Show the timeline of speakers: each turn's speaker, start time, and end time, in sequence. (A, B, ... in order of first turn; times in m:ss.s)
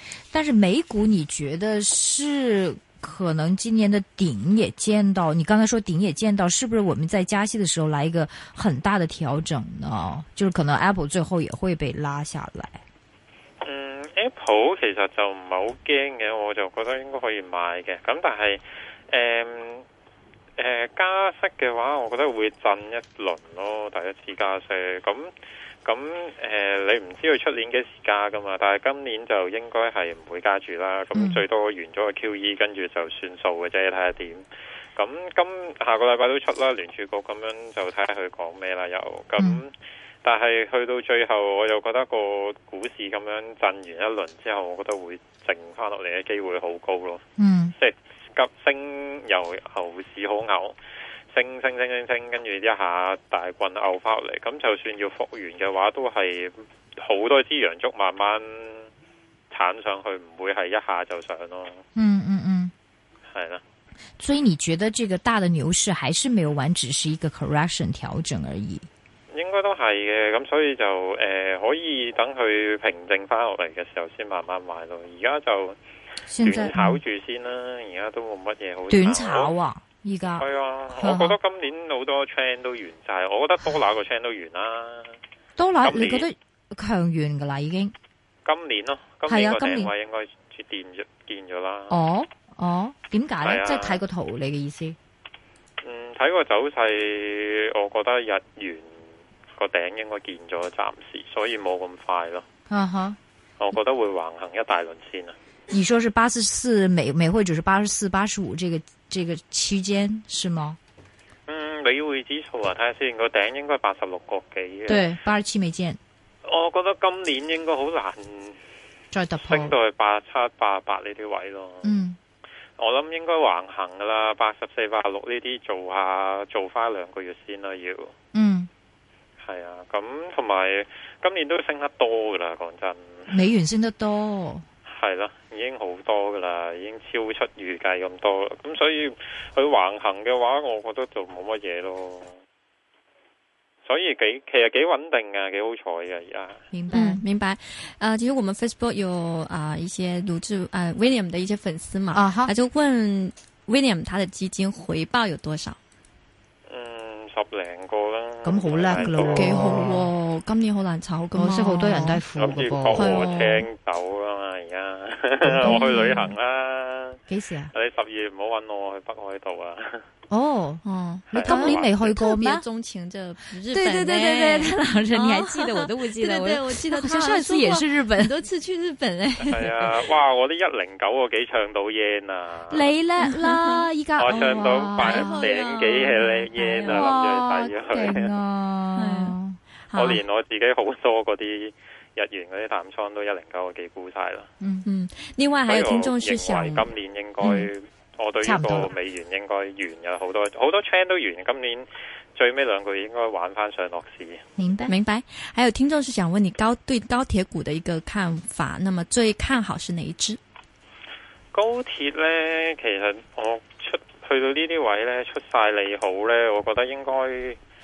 0:00.3-0:12.8 A
0:13.6-0:19.8 B
0:20.6-0:25.3 B
0:25.8-0:34.4 B
0:31.1-0:31.4 A
0:35.0-0:47.2 B
0:47.4-0:47.7 A
0:47.8-0:50.8 B
0:51.3-0:58.9 B
0:59.5-1:01.8 B
1:01.9-1:02.7 A
1:03.3-1:03.6 B
1:04.2-1:08.9 A
1:09.3-1:15.8 B
1:16.3-1:17.0 A
1:16.4-1:19.5 B
1:18.9-1:20.4 A
1:20.4-1:25.2 B
1:21.0-1:21.4 A
1:25.6-1:27.9 A
1:25.8-1:26.3 B
1:28.4-1:32.0 B
1:29.3-1:29.9 A
1:31.9-1:35.0 A
1:33.4-1:34.0 B
1:35.8-1:42.4 B
1:42.7-1:43.2 A
1:43.6-1:45.4 B
1:45.7-1:50.8 A
1:51.5-1:55.0 B
1:54.9-1:56.0 A
1:56.4-1:58.6 B
1:59.1-1:59.8 A
1:59.4-2:02.0 B
2:01.8-2:02.2 A
2:02.8-2:08.1 B
2:08.3-2:08.7 A
2:09.4-2:13.3 B
2:13.3-2:14.6 A
2:14.9-2:22.4 B
2:23.8-2:26.6 B
2:26.7-2:27.2 A
2:26.9-2:35.8 C
2:32.1-2:32.5 A
2:36.7-2:39.6 B
2:38.4-2:40.1 A
2:39.3-2:42.2 C
2:41.3-2:43.3 A
2:42.4-2:47.2 B
2:42.9-2:43.6 C
2:45.4-2:46.3 A
2:47.3-2:47.7 A
2:47.7-2:50.0 B
2:50.3-2:52.6 A
2:50.8-2:59.9 C
2:51.3-2:52.1 B
2:53.7-2:58.4 A
2:59.4-3:02.9 B
3:02.7-3:05.5 A
3:03.2-3:07.2 C
3:04.2-3:08.3 B
3:06.6-3:09.6 A
3:09.0-3:09.4 C
3:09.9-3:10.2 C
3:09.9-3:14.5 B
3:14.6-3:14.8 A
3:14.8-3:16.9 C
3:15.7-3:24.4 B
3:18.4-3:18.9 A
3:24.6-3:24.9 A
3:24.9-3:30.4 C
3:31.5-3:37.6 B